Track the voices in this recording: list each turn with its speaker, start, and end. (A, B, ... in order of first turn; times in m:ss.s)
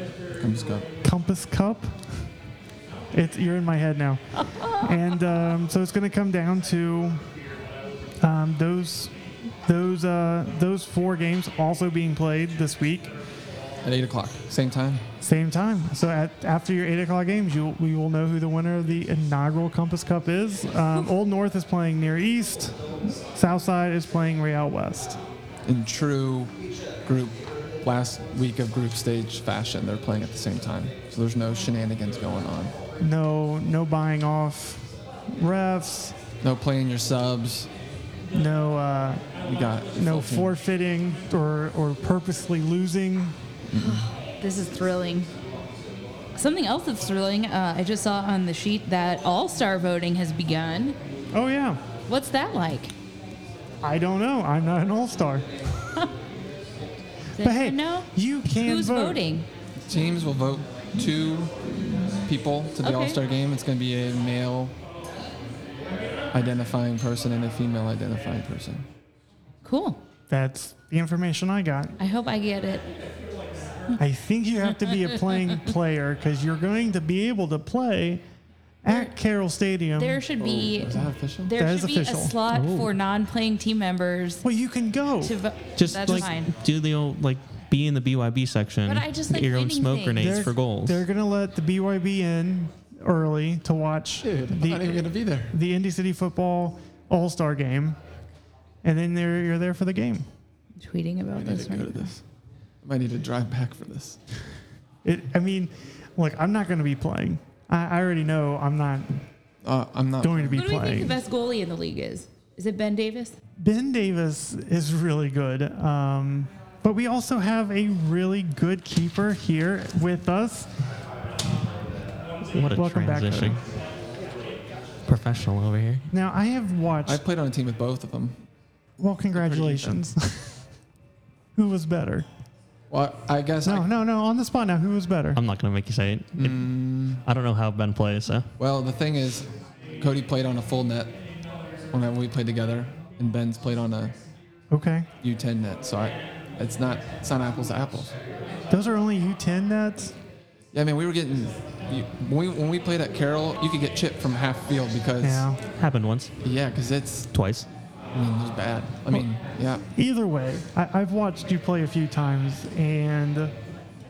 0:00.4-0:00.9 A
0:01.0-0:02.0 B
0:03.1-0:07.2 B
0:04.6-0:04.8 C
0:08.2-0:09.1 B
0:09.6-0:13.1 B
0:13.8-0:15.0 A
0:15.2-0:25.2 B
0:25.6-0:26.5 A
0:27.0-0:32.7 A
0:33.0-0:36.2 B
0:36.4-0:37.7 A
0:38.3-0:39.3 B
0:39.4-0:40.5 A
0:40.0-0:43.4 B
0:43.7-0:44.1 A
0:43.8-0:45.3 C
0:46.3-0:51.0 C
0:51.3-0:51.8 B
0:52.1-0:52.9 C
0:53.8-0:55.4 B
0:57.4-0:59.5 C
0:57.4-0:59.2 B
0:59.8-1:01.6 A
1:02.2-1:04.8 A
1:02.8-1:03.2 C
1:06.3-1:08.9 A
1:09.6-1:10.0 C
1:10.3-1:12.0 B
1:12.0-1:12.9 C
1:14.0-1:18.2 B
1:18.8-1:20.2 B
1:18.9-1:19.1 C
1:19.9-1:24.4 C
1:20.4-1:21.5 A
1:21.6-1:22.4 B
1:22.5-1:22.9 D
1:24.4-1:25.3 B
1:25.2-1:26.5 C
1:25.8-1:31.0 D
1:25.9-1:26.3 B
1:28.8-1:30.4 C
1:30.2-1:38.0 B
1:34.2-1:35.5 A
1:38.8-1:40.2 B
1:40.8-1:42.1 C
1:41.3-1:42.2 A
1:42.8-1:44.2 A
1:45.0-1:49.2 B
1:49.6-1:50.6 A
1:50.2-1:51.2 B
1:50.5-1:53.4 C
1:53.6-2:00.7 B
2:02.5-2:03.6 D
2:02.6-2:03.6 B
2:05.0-2:06.1 D
2:06.1-2:07.2 B
2:07.0-2:08.4 A
2:09.0-2:10.6 B
2:09.3-2:09.9 A
2:11.6-2:12.2 B
2:12.9-2:13.9 A
2:13.6-2:15.4 B
2:15.4-2:16.7 D
2:16.4-2:17.2 A
2:17.2-2:18.5 D
2:18.6-2:21.1 A
2:21.9-2:24.2 A
2:24.7-2:25.1 B
2:25.2-2:28.1 A
2:28.7-2:30.1 B
2:30.7-2:35.5 A
2:35.2-2:35.6 B
2:35.7-2:36.3 D
2:36.4-2:37.3 A
2:37.3-2:37.7 D
2:38.1-2:39.8 A
2:39.9-2:43.5 B